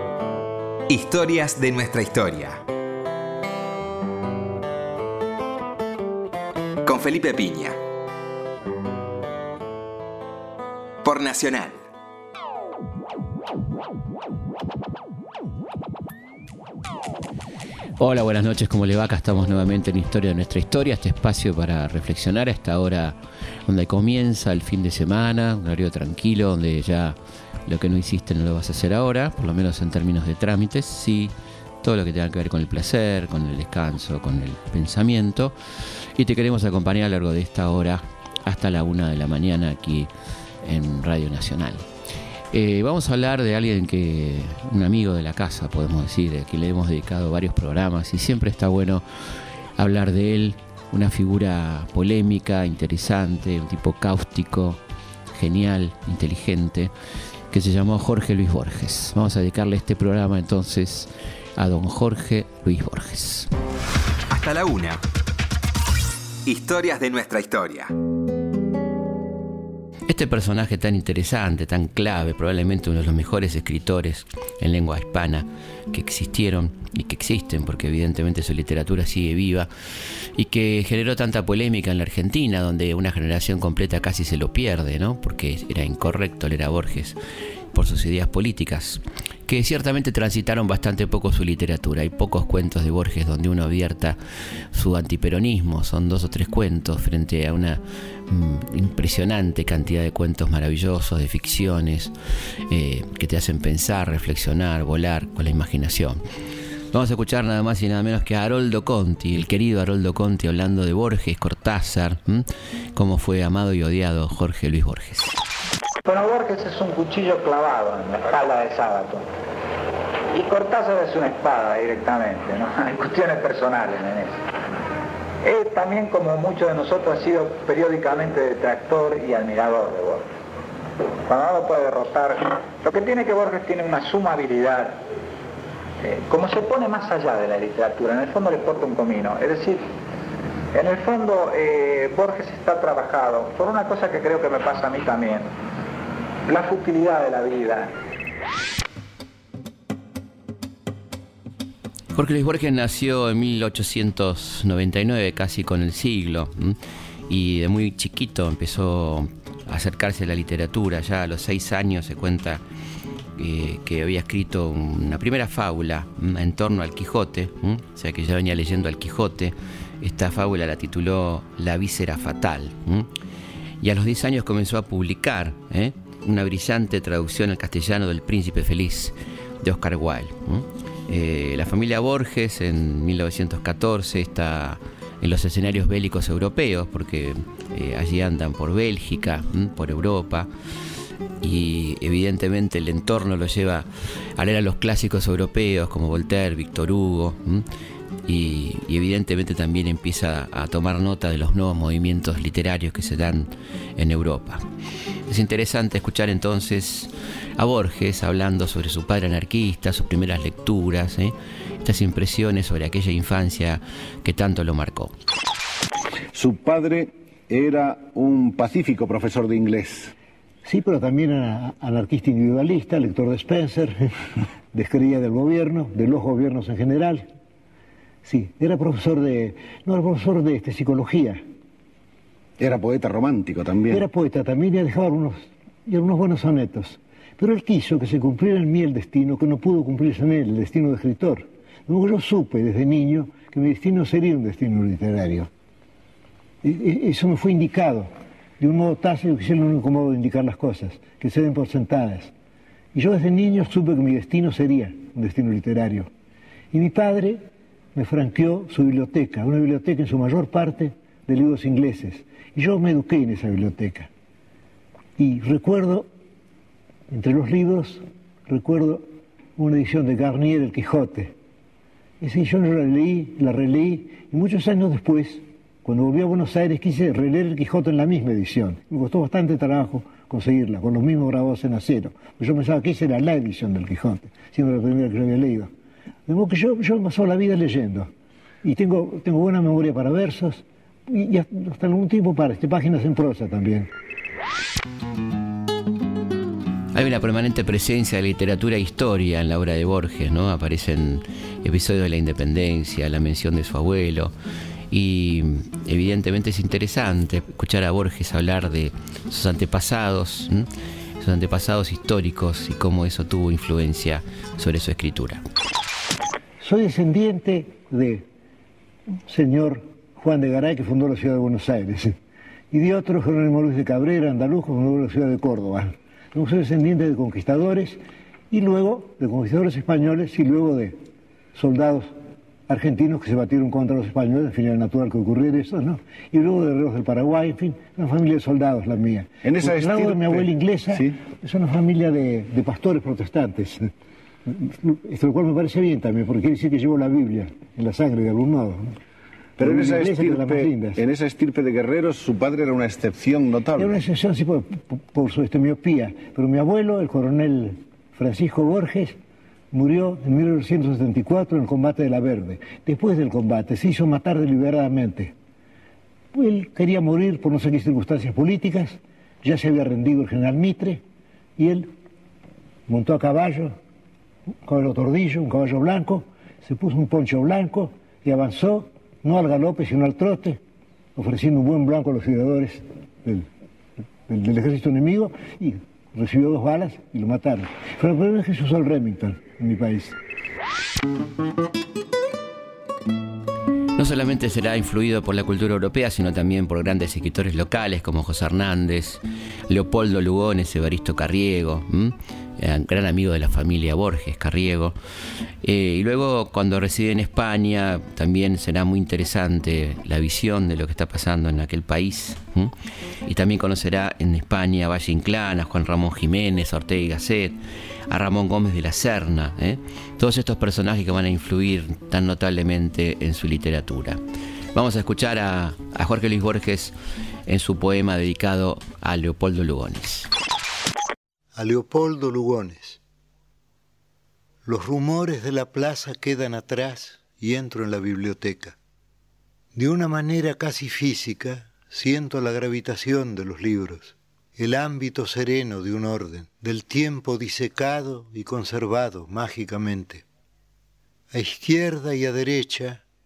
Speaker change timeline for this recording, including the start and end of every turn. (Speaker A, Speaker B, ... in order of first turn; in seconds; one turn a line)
Speaker A: 0.9-2.6
Speaker A: 6.8-7.8
Speaker A: 11.0-11.8
Speaker B: 18.0-35.6
Speaker B: 36.1-40.1
Speaker B: 40.6-41.9
Speaker B: 42.5-49.0
Speaker B: 49.8-54.8
Speaker B: 55.3-56.9
Speaker B: 57.5-63.5
Speaker A: 64.3-65.0
Speaker A: 66.5-67.9
Speaker B: 70.1-79.7
Speaker B: 80.3-87.2
Speaker B: 87.7-94.2
Speaker B: 94.7-102.1
Speaker B: 102.7-106.2
Speaker B: 106.9-115.4
Speaker C: 116.0-119.3
Speaker C: 120.3-124.4
Speaker C: 125.4-130.3
Speaker C: 131.3-135.0
Speaker C: 136.0-139.9
Speaker C: 140.7-145.5
Speaker C: 146.5-147.9
Speaker B: 152.2-156.8
Speaker B: 157.3-162.6
Speaker B: 163.4-173.1
Speaker B: 173.8-190.5
Speaker B: 191.4-197.7
Speaker B: 198.3-204.6
Speaker B: 205.3-215.1
Speaker D: 216.3-220.1
Speaker E: 220.7-224.2
Speaker E: 224.7-227.3
Speaker E: 228.2-231.4
Speaker D: 232.6-234.0
Speaker E: 233.9-245.5
Speaker E: 246.6-252.3
Speaker E: 252.9-256.1
Speaker E: 256.7-257.4
Speaker E: 257.9-264.1
Speaker E: 265.2-266.1
Speaker E: 267.1-271.3
Speaker E: 272.2-285.7
Speaker E: 286.3-288.1
Speaker E: 288.6-293.9
Speaker B: 296.9-304.3
Speaker B: 304.9-310.7
Speaker B: 311.2-315.4
Speaker E: 316.6-318.3
Speaker E: 319.3-322.2
Speaker E: 322.7-331.0
Speaker E: 331.6-332.1
Speaker E: 332.7-343.9
Speaker D: 339.4-341.2
Speaker E: 344.5-348.9
Speaker D: 349.6-354.0
Speaker E: 349.6-351.0
Speaker E: 353.8-359.2
Speaker E: 359.7-365.3
Speaker E: 366.3-371.0
Speaker E: 371.6-371.9
Speaker E: 372.9-373.8
Speaker E: 374.6-380.6
Speaker E: 381.2-383.5
Speaker E: 384.3-390.2
Speaker B: 394.0-405.0
Speaker B: 405.6-412.7
Speaker B: 413.3-417.6
Speaker B: 418.1-424.2
Speaker B: 424.8-426.9
Speaker B: 427.5-430.3
Speaker F: 431.6-433.0
Speaker F: 434.7-438.8
Speaker F: 439.8-450.2
Speaker F: 451.3-453.0